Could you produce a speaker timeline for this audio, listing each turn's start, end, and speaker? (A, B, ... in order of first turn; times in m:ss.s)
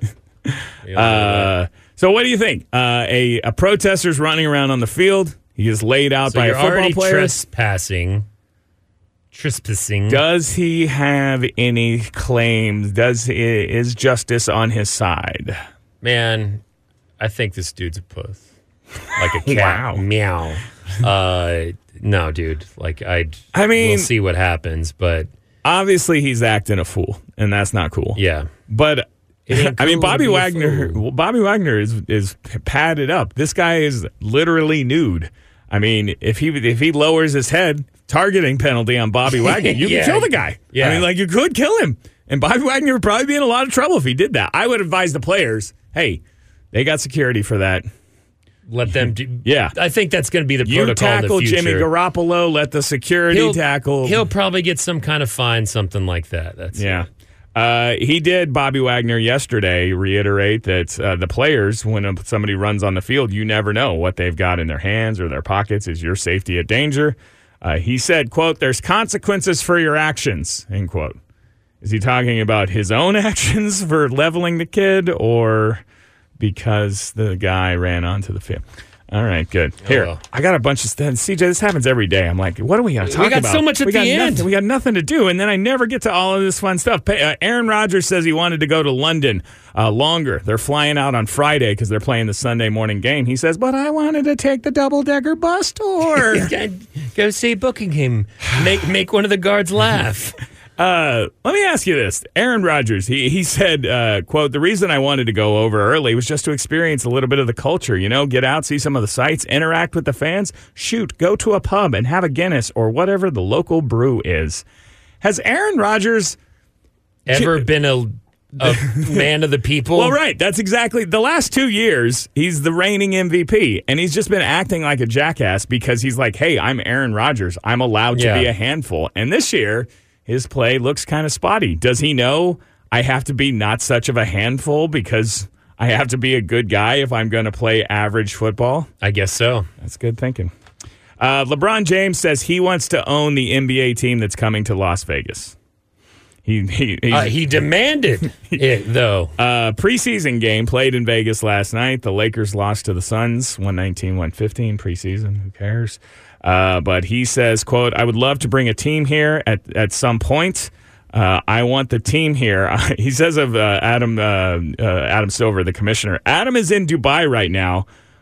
0:00.5-0:07.4 A
0:00.8-0:01.5 B
0:06.3-0:08.2 B
0:09.3-0:10.2 B
0:10.1-0:15.6 A
0:16.0-0:16.6 B
0:17.2-0:18.4 B
0:19.1-0:25.3 B
0:19.4-0:20.0 A
0:23.5-0:24.1 A
0:25.6-0:46.2 A
0:28.2-0:28.5 B
0:29.5-0:31.0 B
0:39.3-0:41.0 B
0:46.7-0:47.9 A
0:48.7-0:51.9 B
0:49.4-0:49.7 A
0:50.6-0:54.2 A
0:53.3-0:57.0 B
0:56.8-1:11.2 A
1:11.8-1:15.8 A
1:16.4-1:36.5 A
1:19.8-1:20.2 B
1:23.0-1:24.5 B
1:36.1-1:40.4 B
1:40.8-1:54.6 A
1:55.2-1:56.4 A
1:57.3-2:00.1 B
1:57.3-1:57.6 A
1:58.6-1:59.3 A
2:00.0-2:18.9 A
2:08.1-2:08.5 B
2:19.0-2:19.7 B
2:19.8-2:20.5 A
2:21.2-2:25.5 A
2:26.4-2:27.5 A
2:27.1-2:29.3 B
2:29.4-2:47.8 A